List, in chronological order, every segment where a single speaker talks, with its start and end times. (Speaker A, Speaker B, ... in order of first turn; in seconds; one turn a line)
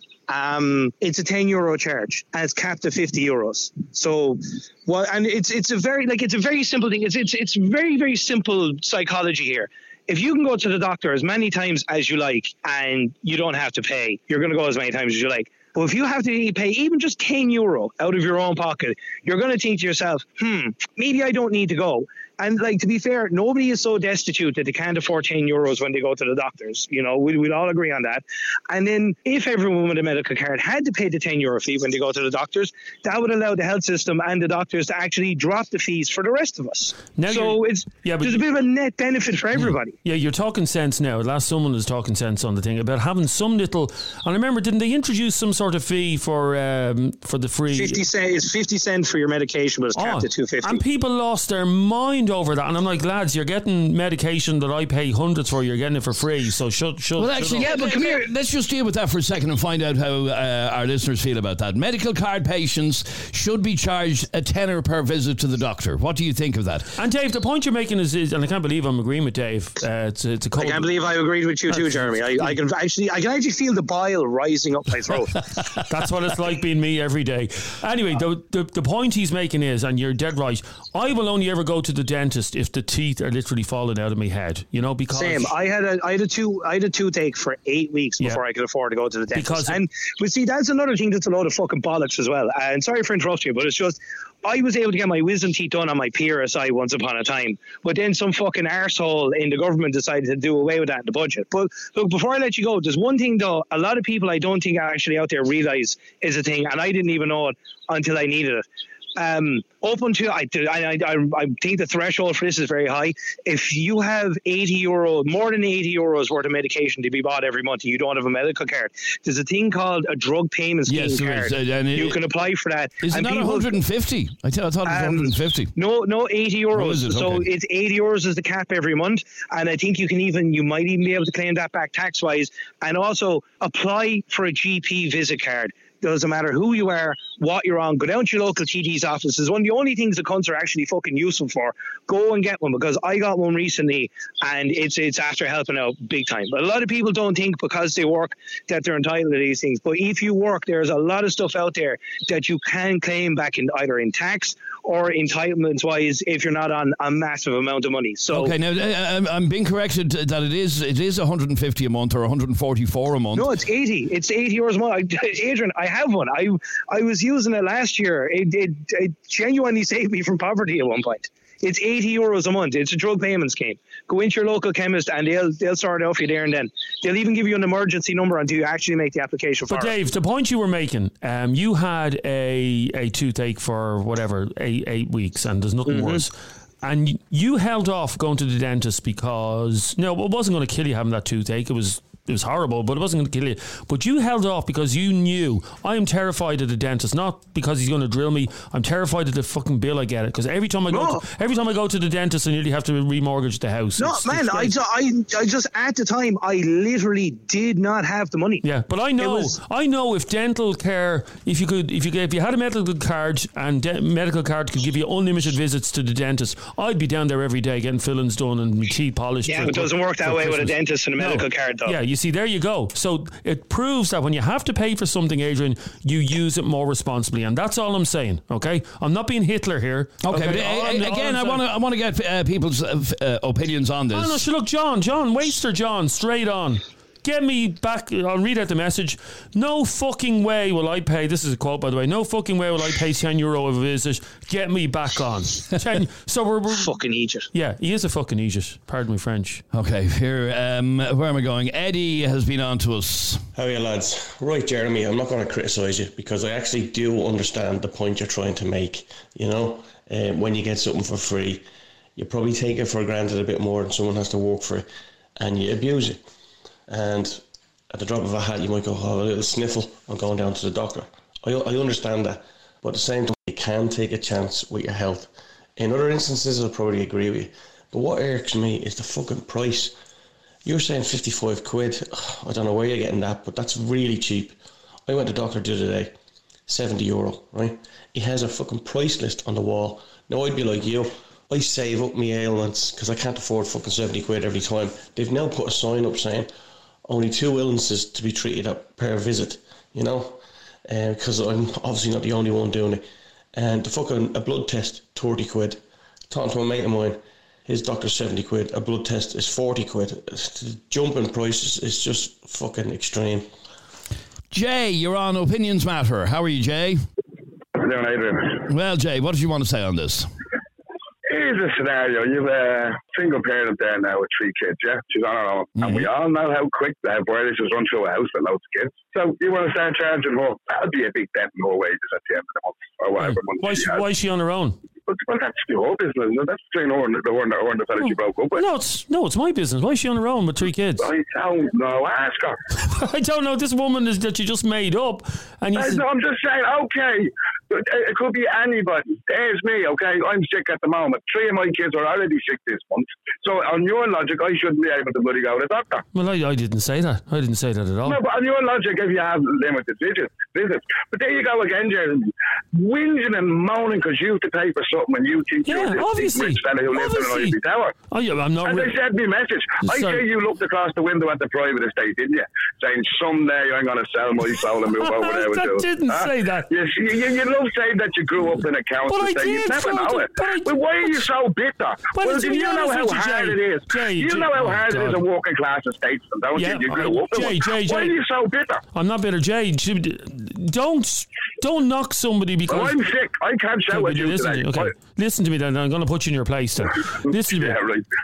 Speaker A: 0.3-40.0
Speaker B: 37.1-38.4
Speaker B: 39.6-48.0
Speaker A: 47.7-50.8
Speaker B: 49.9-57.8
Speaker C: 57.2-66.9
Speaker A: 57.6-58.2
Speaker B: 67.0-71.0
Speaker A: 70.6-75.5
Speaker B: 71.7-72.6
Speaker B: 75.9-85.5
Speaker A: 85.1-108.7
Speaker B: 89.3-89.8
Speaker A: 109.2-123.7
Speaker C: 120.8-122.2
Speaker C: 123.0-125.7
Speaker A: 124.8-158.5
Speaker C: 126.7-127.5
Speaker C: 158.3-163.5
Speaker A: 163.3-179.9
Speaker B: 179.7-204.8
Speaker A: 185.9-186.2
Speaker A: 200.9-201.2
Speaker A: 204.0-208.7
Speaker B: 208.6-231.6
Speaker A: 209.2-209.6
Speaker A: 219.4-222.0
Speaker C: 230.2-234.4
Speaker B: 234.1-247.0
Speaker A: 246.7-247.5
Speaker B: 247.5-249.6
Speaker C: 249.7-253.4
Speaker D: 253.5-261.6
Speaker D: 262.1-264.9
Speaker D: 265.4-266.2
Speaker D: 266.9-279.9
Speaker D: 280.6-286.1
Speaker D: 286.7-296.5
Speaker D: 297.1-313.5
Speaker C: 314.5-317.0
Speaker E: 317.8-318.6
Speaker C: 318.7-320.3
Speaker E: 321.3-334.0
Speaker C: 325.8-326.0
Speaker B: 333.2-334.8
Speaker E: 335.1-338.6
Speaker B: 338.0-341.1
Speaker E: 341.0-342.6
Speaker B: 342.9-346.0
Speaker E: 345.7-356.0
Speaker B: 356.1-358.2
Speaker E: 358.1-367.9
Speaker B: 365.6-367.6
Speaker B: 368.1-368.9
Speaker E: 368.6-388.8
Speaker B: 369.8-370.2
Speaker B: 375.0-376.7
Speaker B: 379.1-381.2
Speaker B: 382.1-385.2
Speaker B: 386.6-388.1
Speaker B: 388.9-393.0
Speaker E: 392.7-394.9
Speaker B: 393.9-397.8
Speaker E: 397.3-398.0